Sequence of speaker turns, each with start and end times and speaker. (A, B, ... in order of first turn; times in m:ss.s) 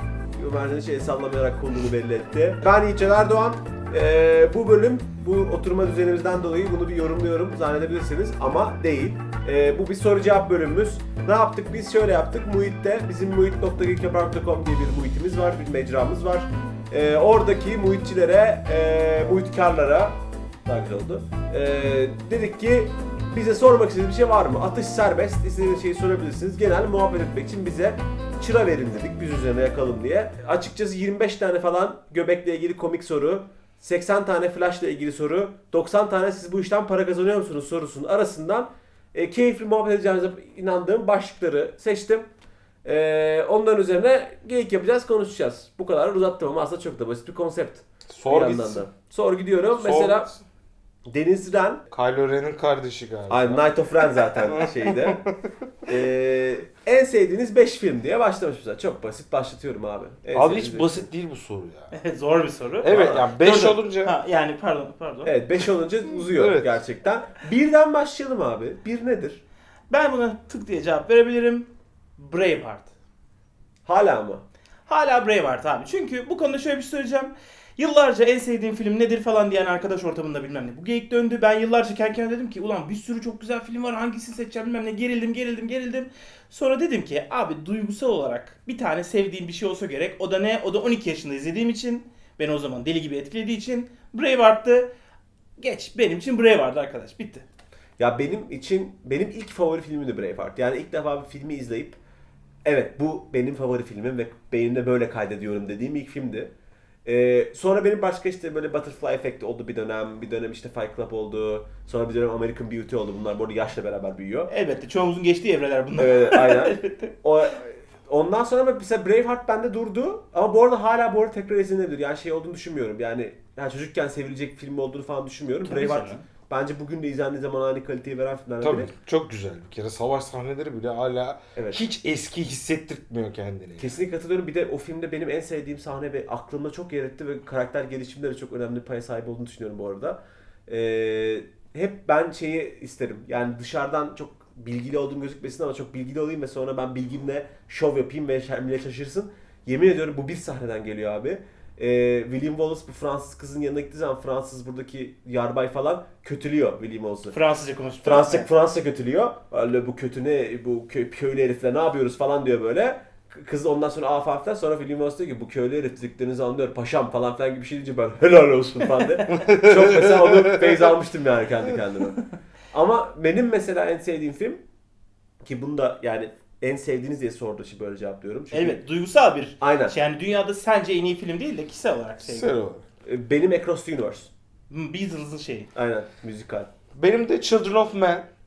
0:00.4-0:42.3 A
0:42.8-0:50.3 A
0:48.1-0:48.8 B
0:49.8-0:50.4 B
0:51.1-0:51.8 A
0:51.9-0:53.7 B
0:53.3-0:55.2 A
0:54.5-0:55.4 B
0:55.9-1:01.1 A
1:00.3-1:02.0 B
1:01.9-1:05.6 C
1:02.8-1:04.1 B
1:02.8-1:03.4 A
1:05.2-1:09.4 A
1:06.3-1:06.8 B
1:09.9-1:12.9 C
1:13.8-1:14.4 A
1:14.9-1:34.9 C
1:35.6-1:37.4 C
1:38.0-1:42.0 A
1:42.6-1:46.5 A
1:47.0-1:54.5 A
1:54.5-1:57.1 C
1:56.0-2:08.9 A
2:05.6-2:06.2 C
2:08.6-2:14.0 B
2:11.6-2:11.8 A
2:13.8-2:37.4 A
2:37.3-2:38.5 C
2:38.0-2:54.6 A
2:49.3-2:50.7 B
2:55.4-2:58.8 A
2:58.5-3:02.5 C
2:59.6-2:59.9 A
3:02.2-3:02.8 B
3:03.0-3:04.3 A
3:04.7-3:05.7 C
3:05.8-3:06.7 A
3:07.0-3:08.3 B